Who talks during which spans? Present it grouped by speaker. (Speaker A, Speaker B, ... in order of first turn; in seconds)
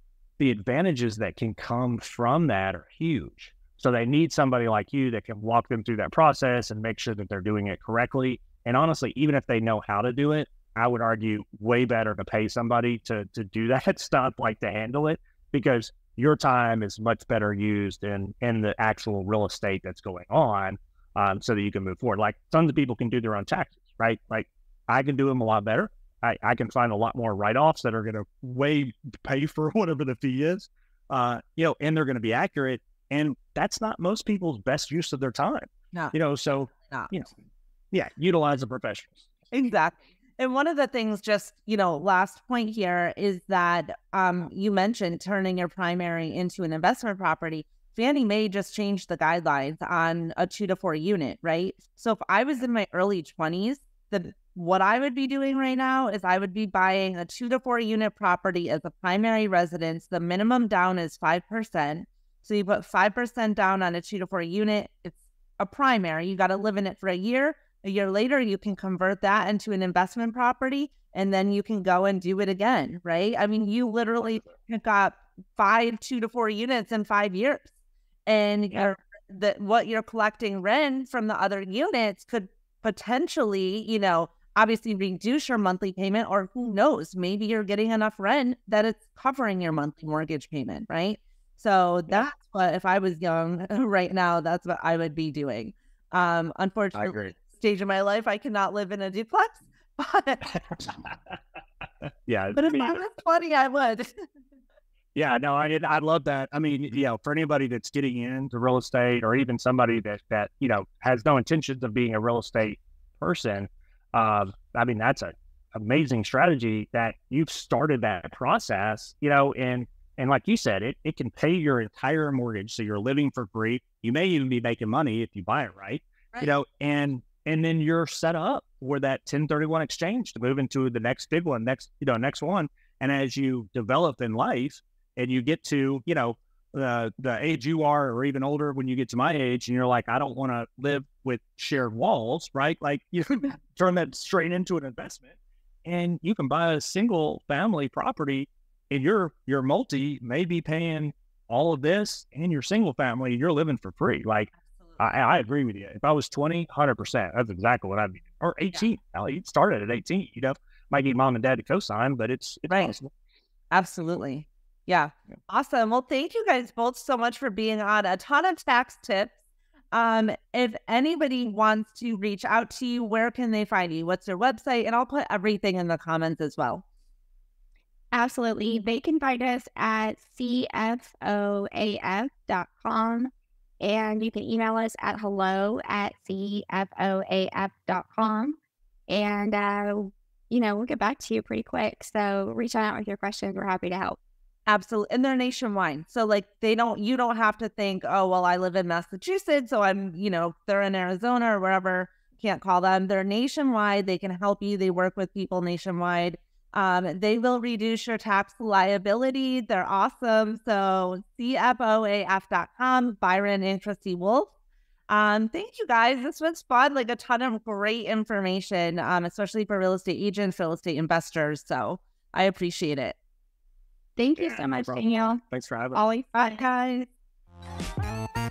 Speaker A: 0.4-37.3, 37.9-39.2, 96.9-97.3, 102.2-103.0, 105.1-145.3, 145.8-163.1, 224.4-226.0
Speaker B: 39.5-77.7, 78.3-100.8, 102.5-104.1, 162.7-162.9, 163.7-169.3, 169.9-176.8, 194.7-214.5, 215.1-223.2, 226.5-227.1
Speaker C: 178.1-188.6, 189.1-194.2, 224.2-225.4, 225.9-226.6